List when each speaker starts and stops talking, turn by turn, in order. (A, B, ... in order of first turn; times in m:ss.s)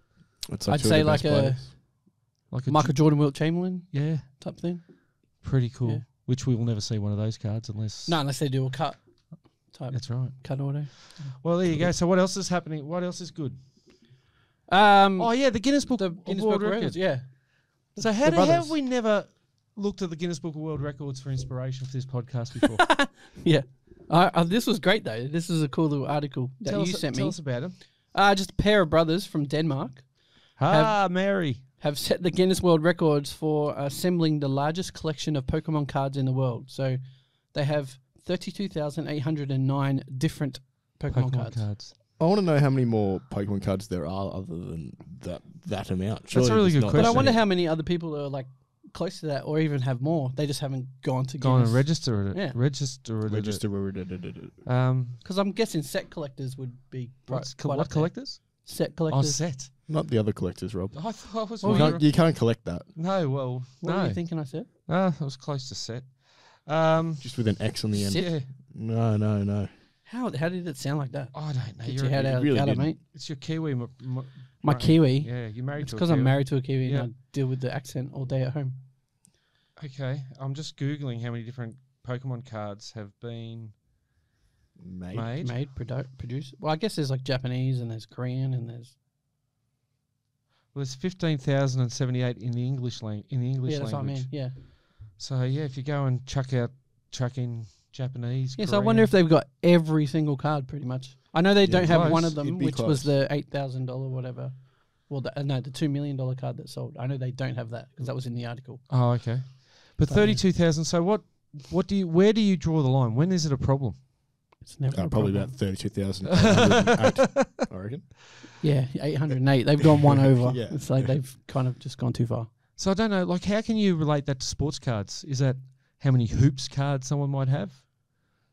0:00.5-0:01.7 A
0:00.7-0:02.1 B
0:02.5-0:04.4 C
0:02.6-0:06.0 B
0:05.4-0:08.2 C
0:08.0-0:11.3 B
0:09.9-0:13.6 C
0:14.7-0:18.8 B
0:15.2-0:22.9 C
0:22.8-0:41.7 B
0:26.6-0:27.8 C
0:30.6-0:31.6 C
0:41.1-0:41.9 C
0:42.2-0:47.4 A
0:46.3-0:47.4 C
0:46.9-0:52.6 B
0:51.4-0:54.1 C
0:53.2-0:54.6 A
0:54.6-0:55.2 C
0:55.2-0:59.4 B
0:57.3-0:59.7 C
0:59.9-1:02.8 A
1:00.9-1:08.5 C
1:01.6-1:02.0 B
1:03.8-1:04.7 B
1:07.2-1:09.7 A
1:08.0-1:08.3 B
1:10.0-1:13.0 B
1:11.3-1:12.3 C
1:12.1-1:13.0 A
1:13.0-1:17.1 C
1:14.6-1:18.8 B
1:19.8-1:23.7 C
1:24.8-1:25.3 A
1:25.1-1:25.6 C
1:25.4-1:28.9 B
1:30.7-1:39.1 C
1:33.6-1:34.6 B
1:38.6-1:49.5 B
1:41.6-1:43.1 A
1:41.8-1:42.3 C
1:48.9-1:54.1 C
1:50.1-1:50.4 B
1:54.6-1:55.5 B
1:54.9-1:58.5 A
1:56.3-1:57.6 C
1:58.6-2:02.5 B
2:00.0-2:01.2 A
2:02.8-2:08.3 C